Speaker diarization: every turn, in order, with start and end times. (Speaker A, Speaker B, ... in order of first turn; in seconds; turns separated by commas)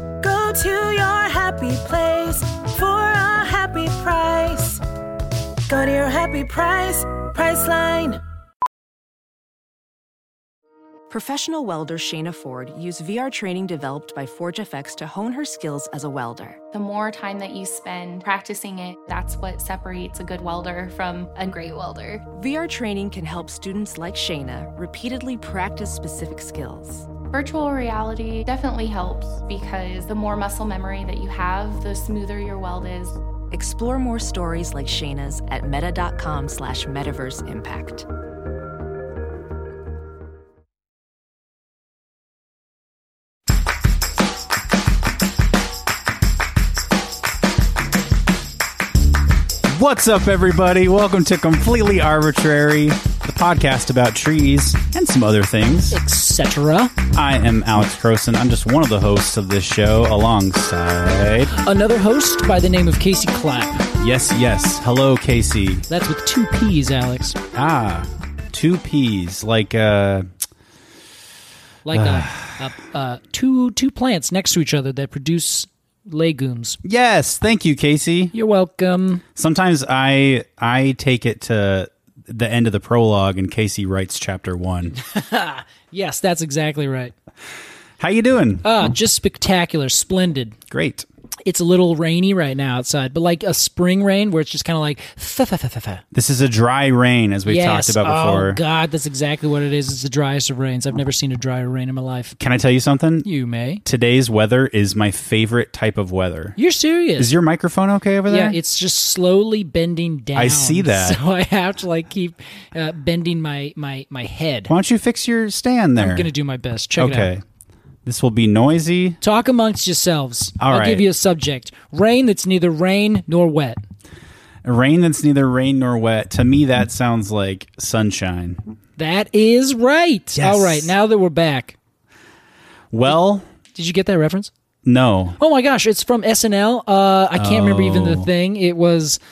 Speaker A: 0.2-4.8, Speaker B: 0.2-3.1, Speaker B: 3.7-4.2, Speaker A: 5.7-8.2, Speaker B: 5.7-6.3, Speaker B: 7.4-8.0, Speaker C: 11.1-16.6, Speaker D: 16.7-22.2, Speaker C: 22.3-27.1, Speaker D: 27.3-33.2, Speaker C: 33.5-38.0, Speaker E: 49.7-56.0, Speaker B: 55.9-56.9, Speaker E: 57.1-61.5, Speaker B: 61.5-63.9, Speaker E: 64.0-65.8, Speaker B: 65.9-67.4, Speaker E: 67.5-70.3, Speaker B: 71.8-76.8, Speaker E: 71.9-72.5, Speaker E: 76.8-78.3, Speaker B: 78.3-79.2, Speaker E: 79.3-84.9, Speaker B: 85.0-87.1, Speaker E: 88.0-88.7, Speaker B: 88.6-90.6, Speaker E: 90.7-91.0, Speaker B: 91.4-96.0, Speaker E: 96.1-98.6, Speaker B: 97.5-102.3, Speaker E: 102.4-103.3, Speaker B: 103.2-103.8, Speaker E: 103.8-106.5, Speaker B: 106.6-107.3, Speaker E: 107.2-108.6, Speaker B: 108.3-114.7, Speaker E: 110.3-111.2, Speaker E: 114.7-116.3, Speaker B: 116.0-117.3, Speaker E: 117.0-117.4, Speaker E: 118.0-119.2, Speaker B: 119.2-123.8, Speaker E: 120.6-121.0, Speaker E: 124.6-128.6, Speaker B: 129.0-131.8, Speaker E: 130.3-130.9, Speaker E: 132.9-133.5, Speaker B: 133.7-134.5, Speaker E: 134.8-135.4, Speaker B: 135.4-139.2, Speaker E: 137.3-138.3